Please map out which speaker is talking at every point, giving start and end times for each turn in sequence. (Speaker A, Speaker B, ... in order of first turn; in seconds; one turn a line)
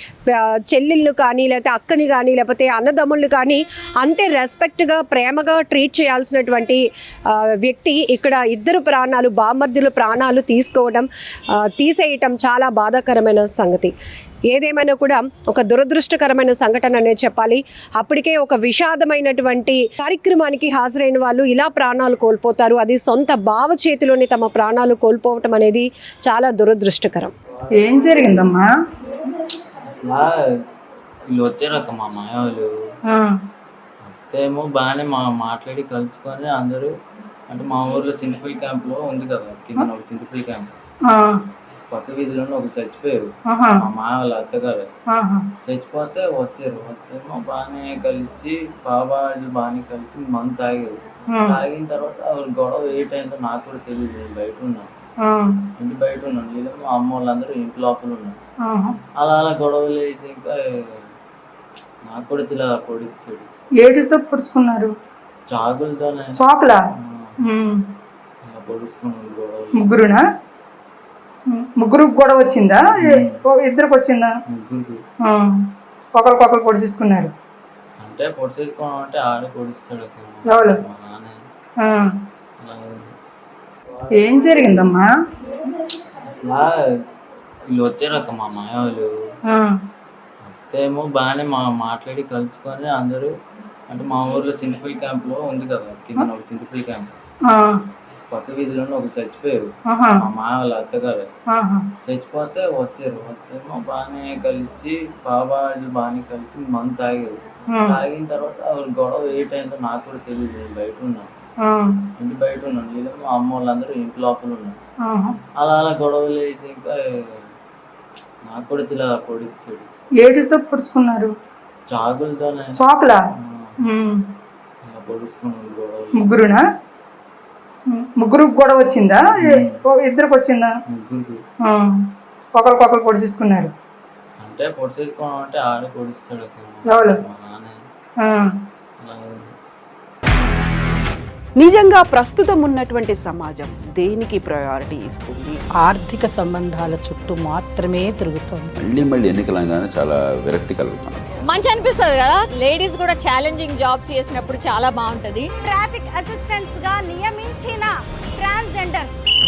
Speaker A: 0.3-13.9
Speaker A: 14.5-27.3
Speaker B: 27.8-28.7
Speaker C: 29.9-30.4
Speaker C: 31.3-32.7
Speaker B: 33.1-33.4
Speaker C: 34.0-36.9
Speaker C: 37.5-40.7
Speaker B: 41.1-41.4
Speaker C: 41.9-43.2
Speaker B: 43.5-43.8
Speaker C: 43.8-44.9
Speaker B: 45.1-45.5
Speaker C: 45.7-54.9
Speaker B: 51.3-51.6
Speaker B: 55.2-55.6
Speaker C: 55.8-58.4
Speaker B: 58.6-59.0
Speaker C: 59.2-61.0
Speaker C: 62.0-63.5
Speaker B: 63.8-64.9
Speaker C: 65.5-66.3
Speaker B: 66.4-66.8
Speaker C: 67.0-67.3
Speaker B: 67.5-67.9
Speaker C: 68.4-70.1
Speaker B: 69.8-70.2
Speaker B: 71.5-74.3
Speaker C: 73.0-73.4
Speaker C: 74.5-75.0
Speaker B: 75.3-75.6
Speaker B: 76.2-77.3
Speaker C: 78.0-81.4
Speaker B: 80.5-80.8
Speaker B: 81.8-82.1
Speaker C: 82.6-83.1
Speaker B: 84.2-85.1
Speaker C: 86.2-86.8
Speaker C: 87.7-89.1
Speaker B: 89.5-89.8
Speaker C: 90.5-93.3
Speaker C: 93.9-97.1
Speaker B: 97.5-97.8
Speaker C: 98.3-99.7
Speaker B: 99.9-100.2
Speaker C: 100.2-101.3
Speaker B: 101.5-101.9
Speaker C: 102.1-111.3
Speaker B: 107.7-108.0
Speaker B: 111.6-112.0
Speaker C: 112.2-114.8
Speaker B: 115.0-115.4
Speaker C: 115.6-117.5
Speaker C: 118.5-119.9
Speaker B: 120.2-121.3
Speaker C: 121.9-122.8
Speaker B: 122.8-123.2
Speaker C: 123.4-123.8
Speaker B: 123.8-124.3
Speaker C: 124.8-126.5
Speaker B: 126.2-126.6
Speaker B: 127.9-130.7
Speaker C: 129.4-129.8
Speaker C: 130.9-131.4
Speaker B: 131.7-132.0
Speaker B: 132.6-133.7
Speaker C: 134.4-137.8
Speaker B: 136.9-137.2
Speaker B: 138.2-138.5
Speaker C: 139.0-139.5
Speaker D: 141.6-145.6
Speaker E: 145.8-148.7
Speaker F: 148.8-151.2
Speaker G: 151.4-155.5
Speaker H: 155.6-159.2